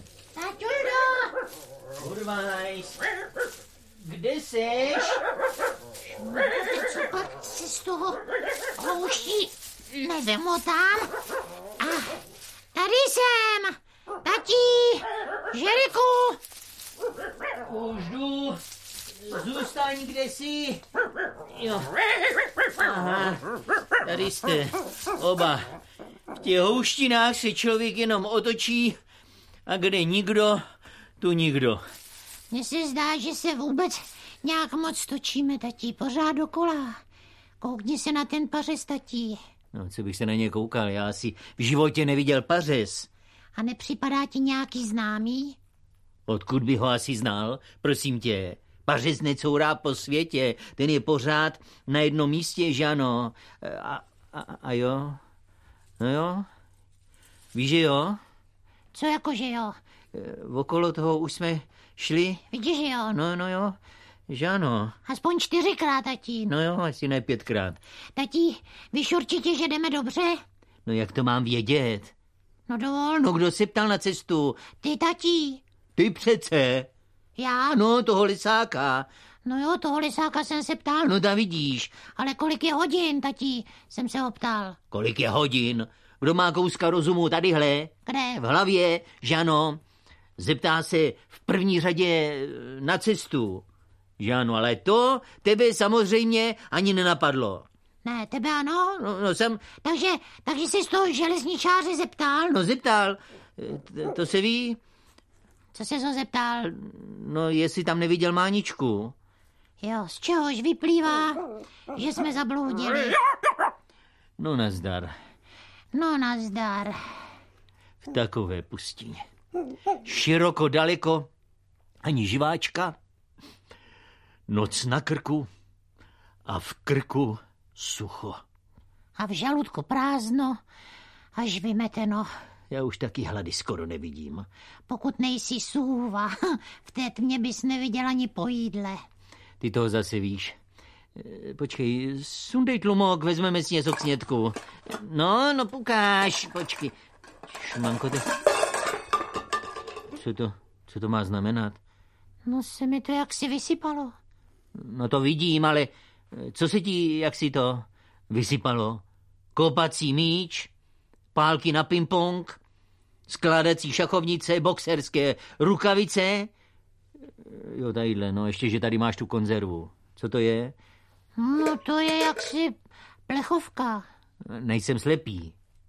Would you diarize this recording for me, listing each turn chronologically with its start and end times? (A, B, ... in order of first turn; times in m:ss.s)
0:00.3-0:01.4 A
0:02.0-0:03.0 B
0:04.0-0:05.2 B
0:06.2-0:08.2 A
0:08.8-0:11.1 A
0:11.8-0:12.2 A
0:12.7-0:16.4 A
0:17.6-0:18.6 B
0:19.2-0:20.8 B
0:21.5-0:22.0 B
0:22.6-0:23.5 B
0:24.0-0:25.7 B
0:26.3-0:29.0 B
0:29.6-0:30.6 B
0:31.2-0:31.8 B
0:32.5-0:37.0 A
0:37.6-0:39.4 A
0:39.7-0:43.1 B
0:43.6-0:45.6 A
0:46.3-0:55.2 B
0:56.0-0:56.5 B
0:57.5-0:58.2 B
0:58.9-0:59.8 A
1:00.1-1:02.5 B
1:02.5-1:03.2 A
1:03.1-1:03.8 B
1:04.3-1:05.0 B
1:05.0-1:06.5 A
1:06.5-1:07.8 B
1:08.2-1:10.4 A
1:10.8-1:12.1 B
1:12.7-1:13.3 A
1:13.2-1:14.7 B
1:14.7-1:15.6 A
1:16.0-1:16.9 B
1:17.4-1:17.8 A
1:17.7-1:19.1 B
1:19.4-1:21.1 A
1:21.0-1:22.0 B
1:22.1-1:24.8 A
1:24.9-1:29.8 B
1:28.0-1:28.4 A
1:30.4-1:33.6 B
1:34.2-1:37.7 B
1:38.0-1:39.1 A
1:39.0-1:39.7 B
1:39.7-1:42.6 A
1:42.5-1:44.8 B
1:45.7-1:46.7 A
1:46.7-1:49.1 B
1:49.8-1:53.2 A
1:54.4-1:55.1 B
1:55.9-1:57.0 A
1:58.0-1:59.2 B
2:00.0-2:01.3 B
2:02.0-2:03.0 B
2:04.5-2:05.5 B
2:06.4-2:08.4 B
2:09.2-2:10.6 A
2:11.4-2:12.3 A
2:12.7-2:14.5 B
2:14.9-2:19.0 A
2:19.6-2:20.5 B
2:21.1-2:26.9 B
2:27.5-2:28.4 B
2:30.1-2:31.8 B
2:32.4-2:34.1 A
2:34.8-2:39.0 B
2:39.5-2:40.7 B
2:41.3-2:42.6 B
2:43.3-2:46.5 B
2:47.4-2:50.7 B
2:51.4-2:52.7 A
2:53.3-2:54.0 A
2:54.5-2:55.5 B